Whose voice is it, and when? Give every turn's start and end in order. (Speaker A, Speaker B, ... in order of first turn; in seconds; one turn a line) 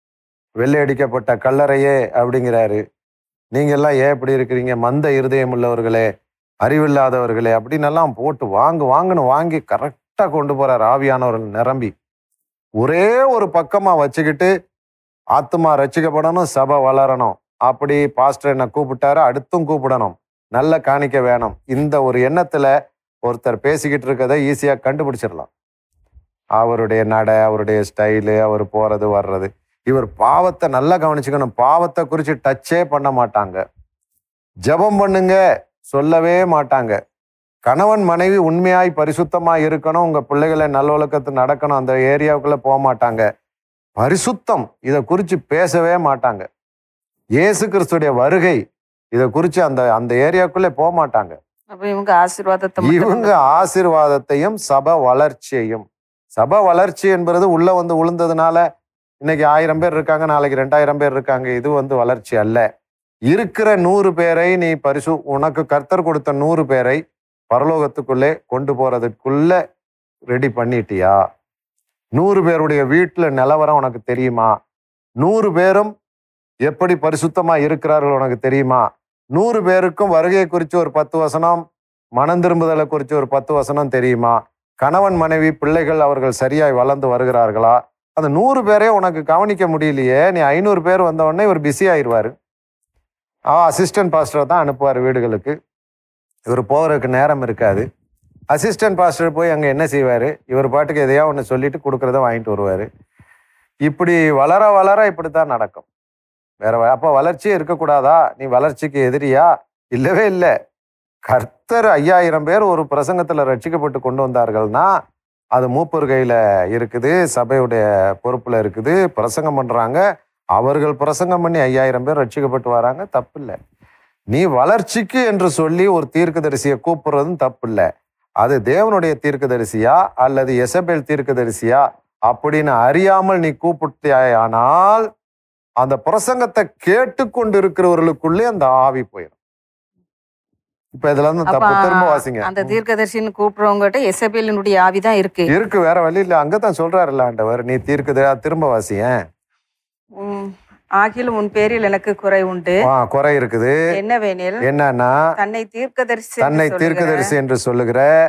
Speaker A: 0.6-2.8
Speaker A: 3.5-6.1
Speaker A: 6.6-11.9
Speaker A: 12.8-14.5
Speaker A: 15.3-22.7
Speaker A: 23.2-25.5
Speaker A: 26.6-33.6
Speaker A: 34.7-37.0
Speaker A: 37.6-43.3
Speaker A: 44.0-46.5
Speaker A: 47.4-48.6
Speaker A: 49.1-51.4
Speaker B: 51.7-53.7
Speaker A: 52.8-58.6
Speaker A: 59.2-62.7
Speaker A: 63.3-67.0
Speaker A: 67.5-69.6
Speaker A: 70.3-71.2
Speaker A: 72.2-74.5
Speaker A: 75.2-75.9
Speaker A: 76.7-81.6
Speaker A: 82.2-92.3
Speaker A: 93.5-95.5
Speaker A: 96.5-97.9
Speaker A: 98.5-102.9
Speaker A: 103.8-105.9
Speaker A: 106.6-110.5
Speaker A: 111.2-114.9
Speaker A: 115.5-120.0
Speaker A: 120.5-123.6
Speaker A: 124.3-127.9
Speaker A: 128.4-135.1
Speaker A: 135.8-139.3
Speaker A: 140.9-142.7
Speaker B: 141.4-145.5
Speaker A: 145.5-149.1
Speaker B: 150.2-152.8
Speaker A: 152.8-153.8
Speaker B: 153.9-154.6
Speaker A: 154.6-155.2
Speaker B: 155.4-157.3
Speaker A: 156.4-158.1